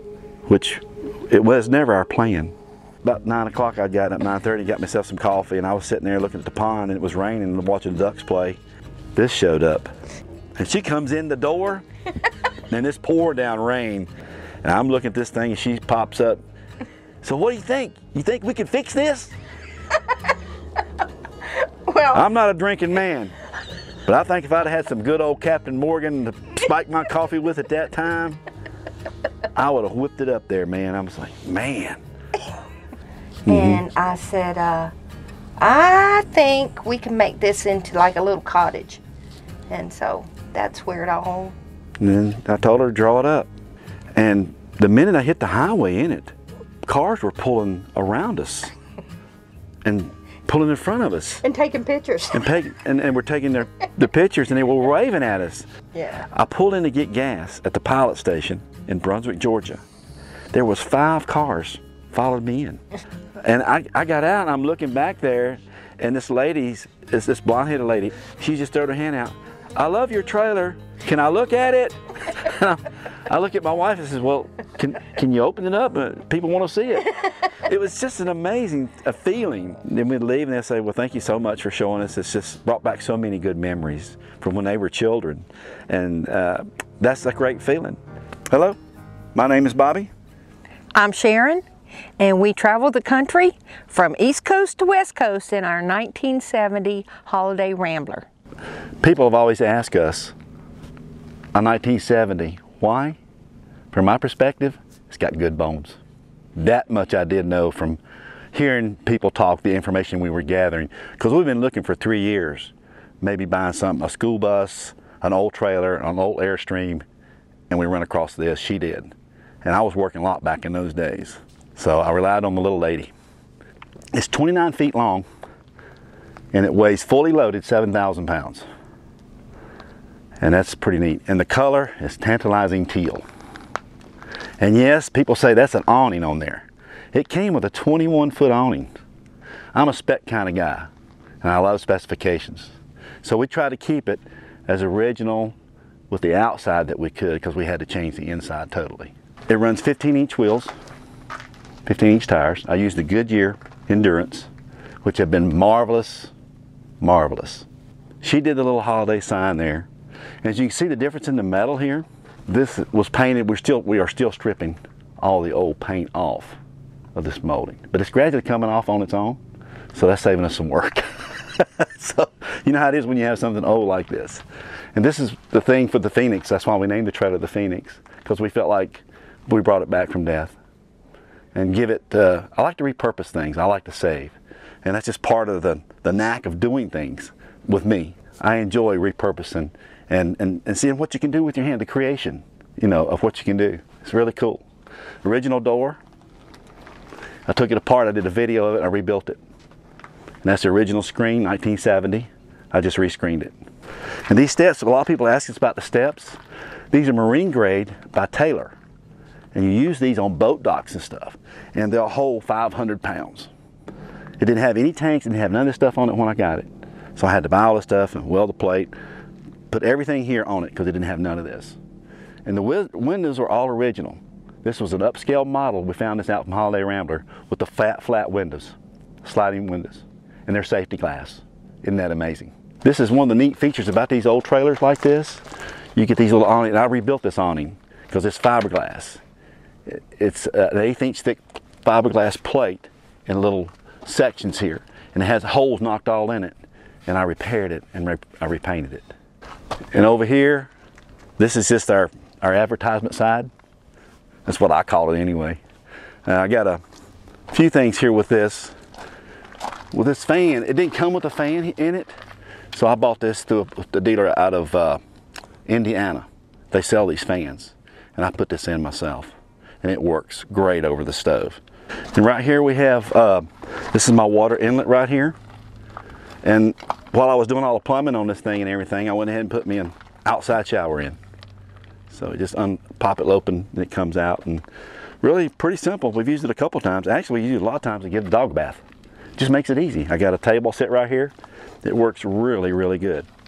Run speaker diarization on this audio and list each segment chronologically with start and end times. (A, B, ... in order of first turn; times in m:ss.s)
0:00.5-0:08.6 A
0:09.2-0:09.9 A
0:10.6-0:11.8 A
0:12.7-0:14.1 A
0:14.6-0:16.4 A
0:17.2-0:19.3 A
0:21.9-0:22.2 B
0:22.1-0:23.4 A
0:24.1-0:28.4 A
0:29.5-0:32.0 A
0:33.5-0:33.8 A
0:33.5-0:34.9 B
0:35.6-0:39.0 B
0:39.7-0:41.6 B
0:42.0-0:43.5 A
0:44.2-0:48.7 A
0:49.8-0:51.4 A
0:51.4-0:52.5 B
0:52.3-0:55.7 A
0:55.9-0:56.3 B
0:56.3-0:59.8 A
1:00.5-1:02.8 A
1:03.4-1:28.8 A
1:29.4-1:30.1 A
1:31.0-1:31.6 B
1:32.2-1:38.3 B
1:39.0-1:40.3 A
1:41.5-1:43.2 A
1:43.9-1:46.0 A
1:46.6-1:48.0 A
1:48.5-1:57.0 A
1:57.7-2:03.1 A
2:04.1-2:05.3 A
2:06.5-2:08.6 A
2:10.4-2:13.2 A
2:14.6-2:18.9 A
2:19.7-2:20.9 A
2:21.4-2:25.6 A
2:26.1-2:30.7 A
2:31.8-2:34.5 A
2:35.0-2:36.3 A
2:37.0-2:37.7 A
2:38.2-2:39.9 A
2:40.4-2:46.6 A
2:47.2-2:49.4 A
2:49.9-2:54.4 A
2:55.0-3:00.6 A
3:01.6-3:14.6 A
3:15.2-3:16.0 A
3:17.5-3:19.4 A
3:20.4-3:23.5 A
3:24.3-3:26.4 A
3:26.9-3:28.8 A
3:29.5-3:33.5 A
3:34.4-3:38.9 A
3:39.7-3:41.8 A
3:42.4-3:55.4 A
3:56.0-3:59.2 A
3:59.9-4:06.6 A
4:07.1-4:09.1 A
4:09.9-4:10.7 A
4:11.4-4:13.5 A
4:14.5-4:15.6 A
4:16.3-4:16.8 A
4:17.5-4:18.8 A
4:19.9-4:22.1 A
4:22.7-4:25.0 A
4:25.7-4:31.6 A
4:32.1-4:35.4 A
4:36.4-4:41.2 A
4:42.1-4:44.6 A
4:45.2-4:48.8 A
4:49.4-4:53.3 A